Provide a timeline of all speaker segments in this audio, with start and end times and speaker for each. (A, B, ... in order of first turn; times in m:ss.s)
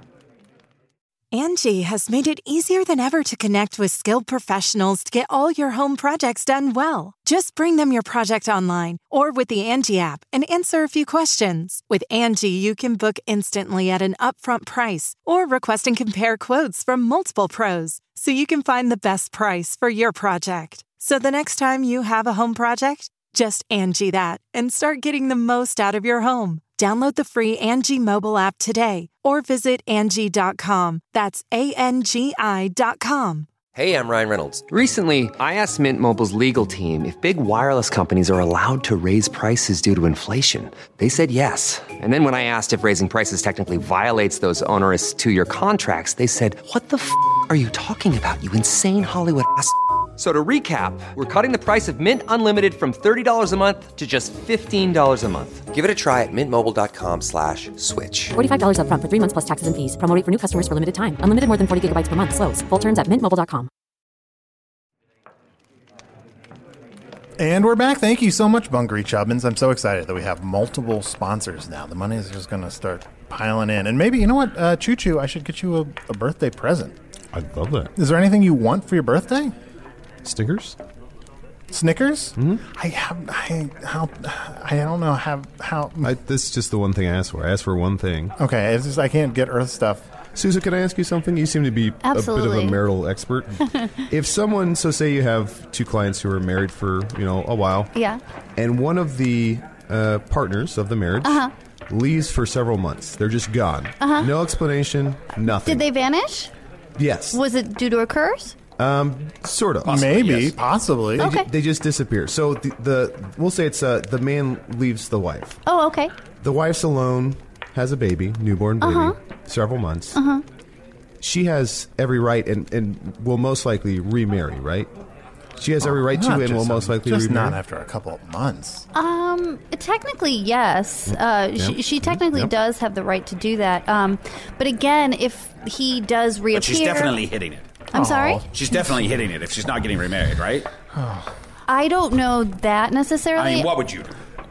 0:01.3-0:33.5 A
0:33.8-0:58.4 B
0:58.3-1:03.7 C
1:07.4-1:17.0 D
1:17.3-1:17.9 E
1:18.0-1:19.5 D
1:20.2-1:20.8 E
1:21.7-1:26.1 D
1:22.4-1:22.6 E
1:26.0-1:28.4 E
1:28.4-1:30.0 D
1:30.4-1:37.9 E
1:32.0-1:32.8 F
1:38.0-1:38.2 F
1:38.6-1:45.9 E
1:41.2-1:41.5 F
1:44.0-1:44.3 F
1:45.6-1:46.5 F
1:47.0-1:47.4 E
1:47.3-1:48.6 F
1:48.8-1:50.2 E
1:49.8-1:50.6 G
1:49.9-1:51.3 D
1:51.2-1:55.6 E
1:51.2-1:51.5 F
1:55.7-1:56.1 F
1:56.4-2:00.2 E
1:58.8-1:59.2 F
2:00.2-2:00.4 F
2:01.2-2:04.9 E
2:05.6-2:07.6 E
2:05.8-2:08.8 D
2:08.9-2:17.2 F
2:11.1-2:12.5 E
2:16.5-2:17.7 G
2:17.9-2:18.4 F
2:17.9-2:18.9 D
2:18.5-2:20.7 G
2:21.0-2:21.3 D
2:21.7-2:23.7 F
2:23.4-2:24.2 G